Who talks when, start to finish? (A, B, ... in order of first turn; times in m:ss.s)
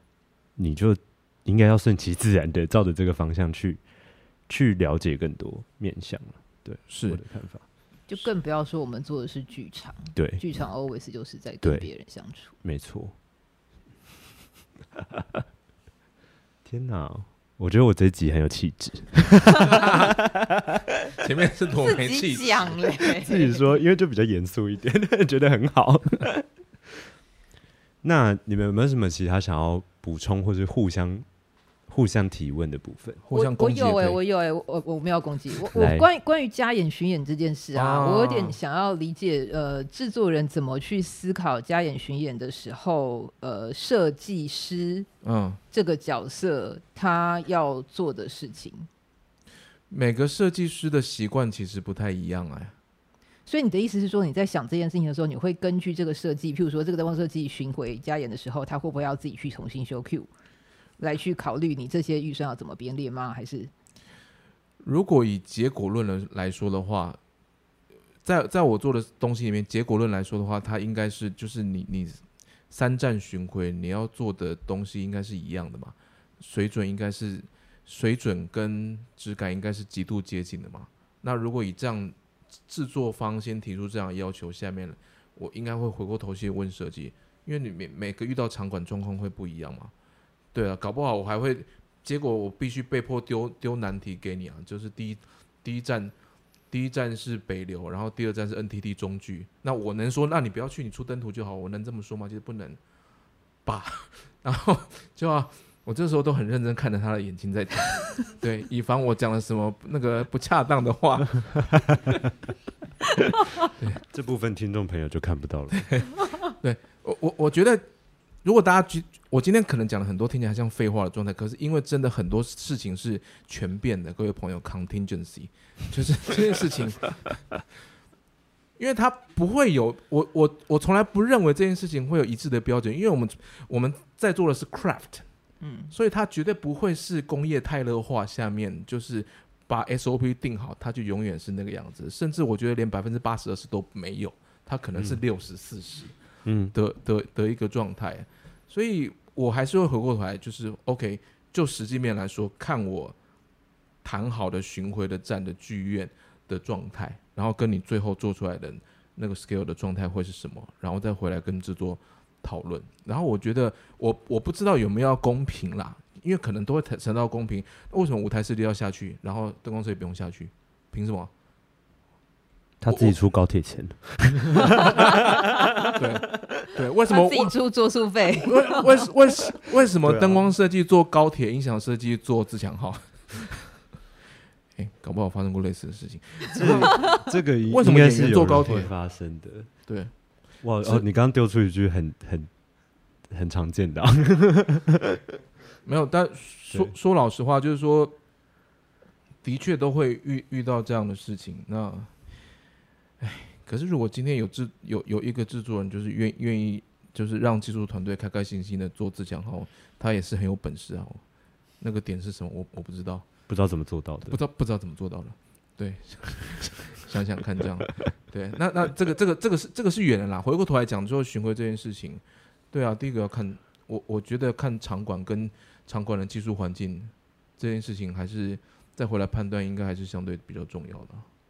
0:00.6-0:03.8 A
0:04.5-0:07.6 A
0:06.9-0:07.2 B
0:08.1-0:12.5 C
0:10.2-0:10.4 A
0:11.6-0:11.9 A
0:12.6-0:13.1 A
0:15.0-0:15.4 A
0:16.6-0:20.8 A
0:19.6-0:20.1 B
0:21.2-0:23.0 B
0:21.8-0:23.7 C
0:23.2-0:26.5 A
0:28.0-0:31.3 A
0:31.9-0:33.2 A
0:33.2-0:34.2 B
0:33.3-0:45.1 C
0:35.7-0:36.1 A
0:37.7-0:38.6 B
0:45.2-0:45.6 B
0:45.7-0:48.9 C
0:49.9-0:52.8 B
0:53.5-1:00.3 C
1:01.0-1:03.7 C
1:04.8-1:07.2 B
1:08.2-1:22.2 B
1:22.7-1:29.9 B
1:30.5-1:36.1 B
1:36.7-1:42.8 B
1:43.7-1:52.1 B
1:54.0-1:56.1 A
1:55.8-1:57.8 B
1:58.4-2:07.2 B
2:08.8-2:15.2 B
2:15.6-2:15.9 C
2:15.9-2:26.2 B
2:26.5-2:26.7 A
2:26.7-2:33.2 B
2:34.0-2:51.3 B
2:52.8-2:55.9 A
2:52.9-2:53.1 B
2:54.8-2:55.1 B
2:55.9-2:57.5 B
2:57.1-2:59.1 C
2:58.4-3:03.8 B
3:00.0-3:00.5 A
3:04.8-3:08.9 B
3:06.5-3:09.7 A
3:09.9-3:10.1 B
3:10.6-3:12.5 A
3:10.8-3:11.1 B
3:13.3-3:15.2 A
3:15.8-3:18.2 B
3:19.4-3:22.1 B
3:23.2-3:31.2 B
3:31.8-3:33.3 B
3:33.5-3:34.4 A
3:34.3-3:51.2 B